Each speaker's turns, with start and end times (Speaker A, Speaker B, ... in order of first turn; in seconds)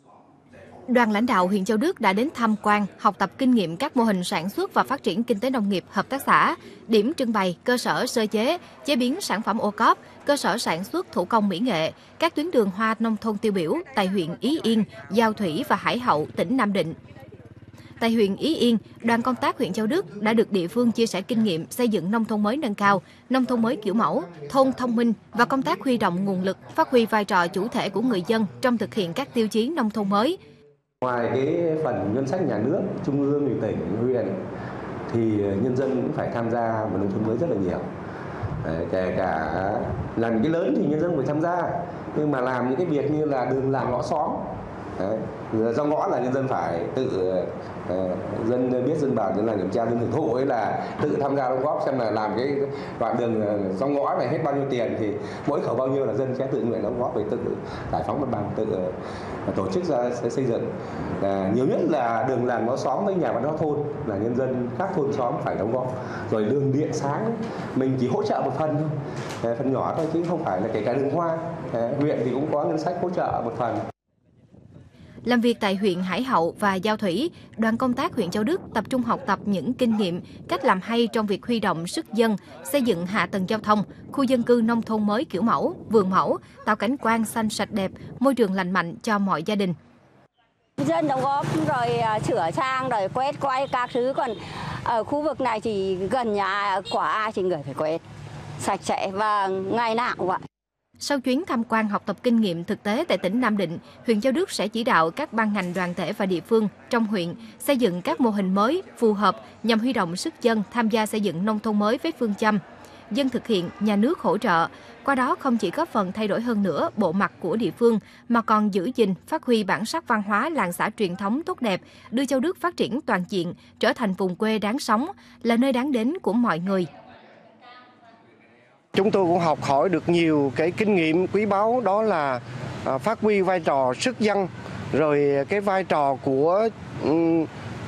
Speaker A: 0.9-16.9, 18.0-30.4, 75.2-89.7, 101.0-112.6, 113.1-126.9
Speaker B: 31.0-34.4, 35.1-37.8, 38.6-44.4, 45.0-58.9, 59.5-60.7, 61.2-73.8
Speaker C: 90.8-98.0, 98.6-100.4
Speaker D: 128.9-137.5